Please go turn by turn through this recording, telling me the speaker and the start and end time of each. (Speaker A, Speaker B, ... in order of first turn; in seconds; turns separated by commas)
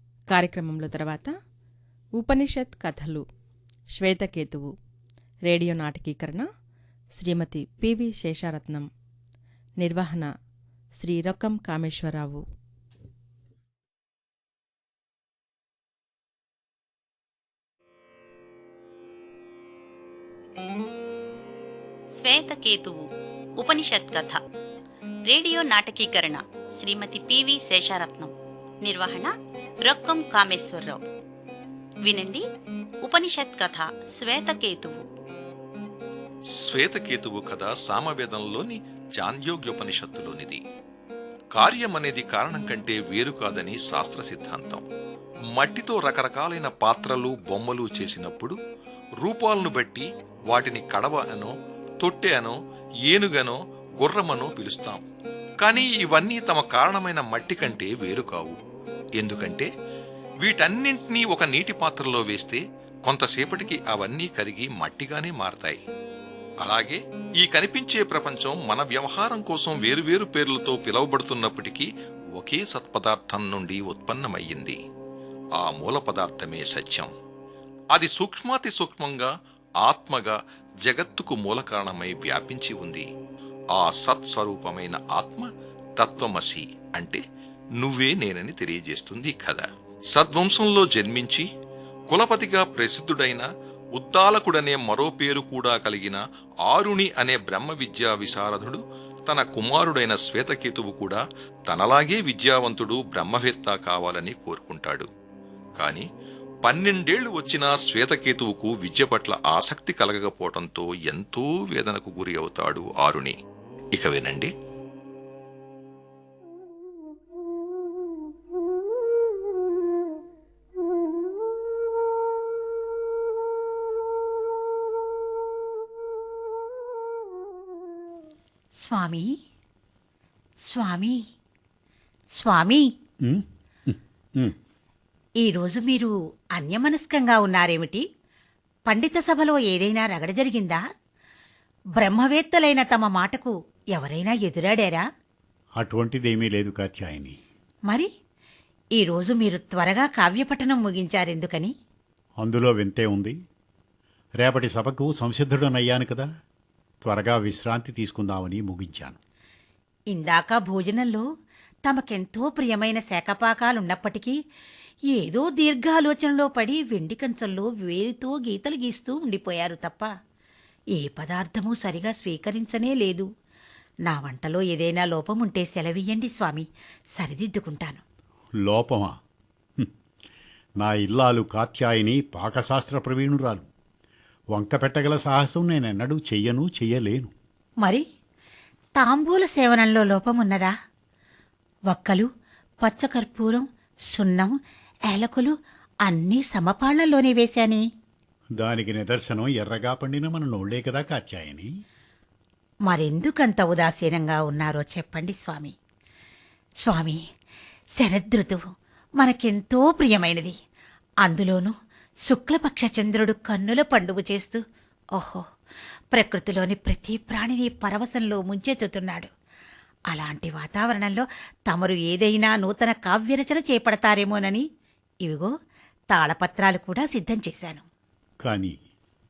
Speaker A: 0.3-1.3, Speaker A: 2.1-3.2, Speaker A: 4.0-4.7, Speaker A: 5.5-6.5, Speaker A: 7.2-8.9, Speaker A: 9.8-10.3, Speaker A: 11.0-12.4, Speaker B: 22.1-23.1, Speaker B: 23.6-24.4, Speaker B: 25.3-29.3, Speaker B: 29.8-31.0, Speaker B: 32.0-32.5, Speaker B: 33.0-35.0, Speaker C: 36.6-40.6, Speaker C: 41.5-44.9, Speaker C: 45.5-48.6, Speaker C: 49.2-52.5, Speaker C: 53.1-55.0, Speaker C: 55.6-58.6, Speaker C: 59.2-59.7, Speaker C: 60.4-65.8, Speaker C: 66.6-74.8, Speaker C: 75.6-77.1, Speaker C: 77.9-83.1, Speaker C: 83.7-87.2, Speaker C: 87.8-91.5, Speaker C: 92.1-105.1, Speaker C: 105.8-106.1, Speaker C: 106.6-113.3, Speaker C: 113.9-114.5, Speaker D: 128.8-129.3, Speaker D: 130.7-131.2, Speaker D: 132.4-132.8, Speaker E: 133.2-134.6, Speaker D: 135.4-138.1, Speaker D: 138.9-140.8, Speaker D: 142.0-145.0, Speaker E: 145.8-147.4, Speaker D: 149.0-151.7, Speaker E: 152.4-153.3, Speaker E: 154.4-156.3, Speaker E: 157.0-159.2, Speaker D: 160.1-161.2, Speaker D: 161.9-164.4, Speaker D: 165.1-170.1, Speaker D: 170.9-173.3, Speaker D: 174.1-176.7, Speaker D: 177.2-178.0, Speaker E: 178.6-179.2, Speaker E: 180.8-183.7, Speaker E: 184.5-187.3, Speaker D: 189.0-190.7, Speaker D: 191.9-192.3, Speaker D: 192.8-194.6, Speaker D: 195.1-195.5, Speaker D: 196.1-197.8, Speaker E: 198.6-201.7, Speaker D: 202.9-205.8, Speaker D: 206.8-207.2, Speaker D: 208.0-208.7, Speaker D: 209.2-210.5, Speaker D: 211.2-211.7, Speaker D: 212.3-214.6, Speaker D: 215.2-215.4, Speaker D: 216.1-219.3, Speaker D: 220.1-224.6, Speaker D: 225.2-225.5, Speaker D: 226.1-227.8, Speaker E: 228.4-228.8